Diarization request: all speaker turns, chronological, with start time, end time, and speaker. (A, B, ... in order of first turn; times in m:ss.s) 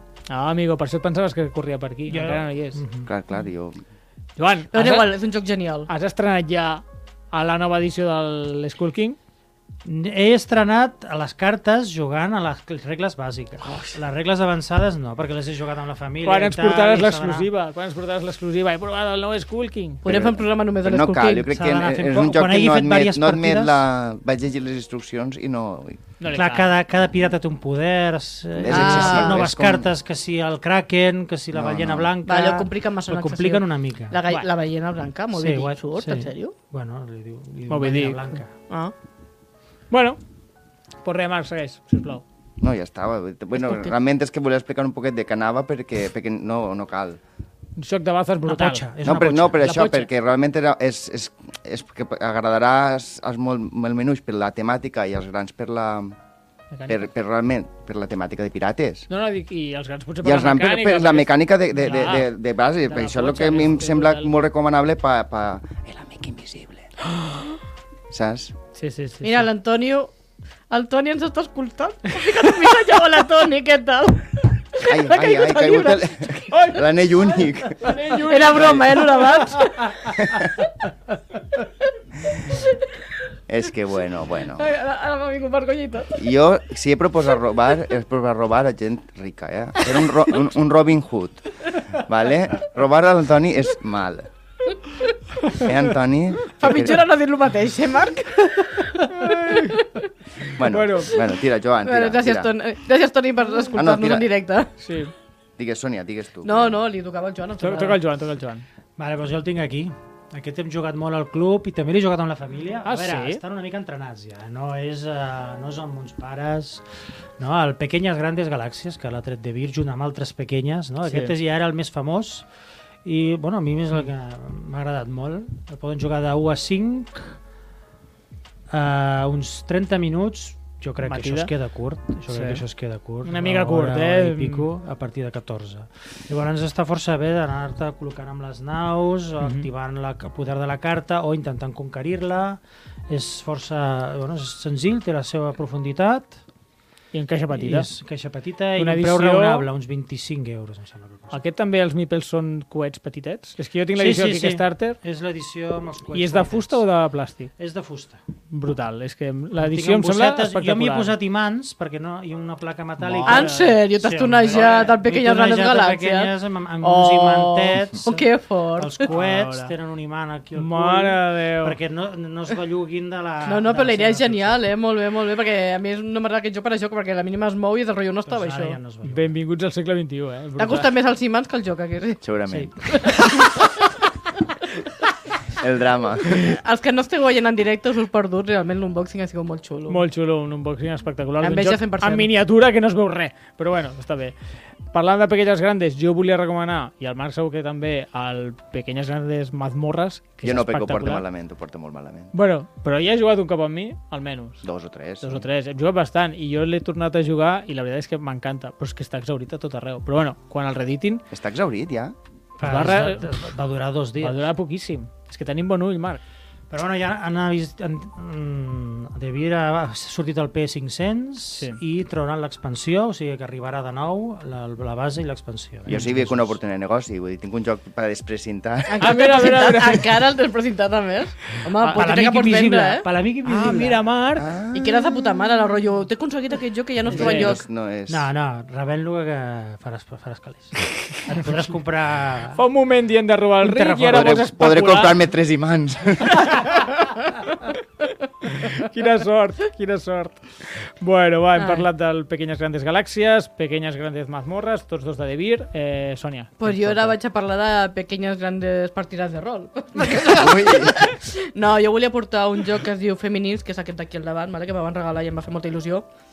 0:00.3-0:02.8 A
0:02.1-0:03.1 B
0:03.0-0:03.8 C
0:04.4-0:05.1 A
0:04.7-0:05.9 D
0:05.9-0:09.2 A
0:09.8-0:17.5 B
0:16.2-0:20.0 A
0:20.0-0:21.5 D
0:20.0-0:26.0 C
0:21.5-0:23.8 B
0:26.2-0:26.7 A
0:26.3-0:34.2 B
0:28.5-0:29.9 C
0:28.7-0:29.4 D
0:31.5-0:32.1 C
0:32.2-0:36.5 D
0:35.3-0:38.5 B
0:37.7-0:38.2 A
0:39.9-0:40.2 A
0:41.0-0:42.2 A
0:42.6-0:47.2 C
0:47.8-0:48.8 A
0:48.4-0:49.8 B
0:49.0-0:56.2 C
0:49.6-0:50.1 A
0:56.7-0:57.0 A
0:56.9-0:59.1 C
0:59.1-1:04.3 A
1:00.2-1:06.9 C
1:08.1-1:08.5 C
1:08.7-1:09.5 A
1:09.2-1:10.1 D
1:10.7-1:16.5 D
1:14.8-1:18.9 C
1:16.5-1:16.8 A
1:17.8-1:19.0 A
1:17.9-1:20.2 D
1:20.0-1:20.6 C
1:22.4-1:23.1 D
1:23.5-1:24.7 C
1:24.5-1:26.2 D
1:26.2-1:34.3 C
1:35.5-1:37.1 C
1:36.6-1:40.0 D
1:39.0-1:39.8 A
1:40.6-1:42.5 C
1:40.6-1:41.2 A
1:41.8-1:44.7 D
1:43.7-1:44.2 C
1:44.8-1:45.1 A
1:45.6-1:46.8 C
1:46.4-1:48.0 D
1:47.6-1:48.6 A
1:49.0-1:56.8 B
1:52.8-1:53.4 A
1:57.4-2:02.5 B
2:01.0-2:01.3 A
2:03.0-2:07.4 B
2:08.7-2:26.4 B
2:11.0-2:11.5 A
2:12.3-2:12.6 A
2:13.2-2:14.7 A
2:19.4-2:19.7 A
2:27.1-2:27.9 A
2:27.5-2:31.4 B
2:28.8-2:29.7 A
2:31.3-2:35.0 A
2:34.0-2:36.8 B
2:36.1-2:37.5 A
2:37.6-2:38.2 B
2:38.5-2:41.1 A
2:39.5-2:54.6 B
2:43.0-2:43.8 A
2:43.2-2:49.1 D
2:49.1-2:49.7 A
2:50.5-2:51.8 A
2:53.4-2:58.8 D
2:58.2-2:59.3 B
2:59.0-3:00.9 A
3:00.6-3:02.2 D
3:02.2-3:02.9 C
3:02.5-3:02.9 B
3:02.8-3:03.8 D
3:05.6-3:06.6 C
3:06.3-3:10.0 D
3:09.9-3:14.4 A
3:11.4-3:12.3 D
3:14.9-3:21.2 A
3:20.4-3:22.3 C
3:22.3-3:24.6 A
3:24.6-3:25.4 C
3:25.2-3:31.2 A
3:31.3-3:32.1 C
3:32.6-3:34.5 B
3:32.6-3:33.3 A
3:34.2-3:36.2 A
3:36.7-3:46.6 B
3:41.5-3:41.8 A
3:45.9-3:49.0 C
3:48.9-3:53.1 D
3:49.0-3:50.2 A
3:51.8-3:54.1 B
3:53.4-3:54.5 A
3:54.4-3:55.4 C
3:54.7-3:57.6 D
3:57.1-3:58.2 C
3:57.1-3:57.6 A
3:58.1-4:02.6 B
4:02.5-4:05.3 A
4:03.6-4:04.5 B
4:04.1-4:06.7 C
4:06.4-4:07.0 A
4:08.5-4:17.1 A
4:11.6-4:11.8 D
4:16.6-4:26.0 D
4:20.0-4:21.0 C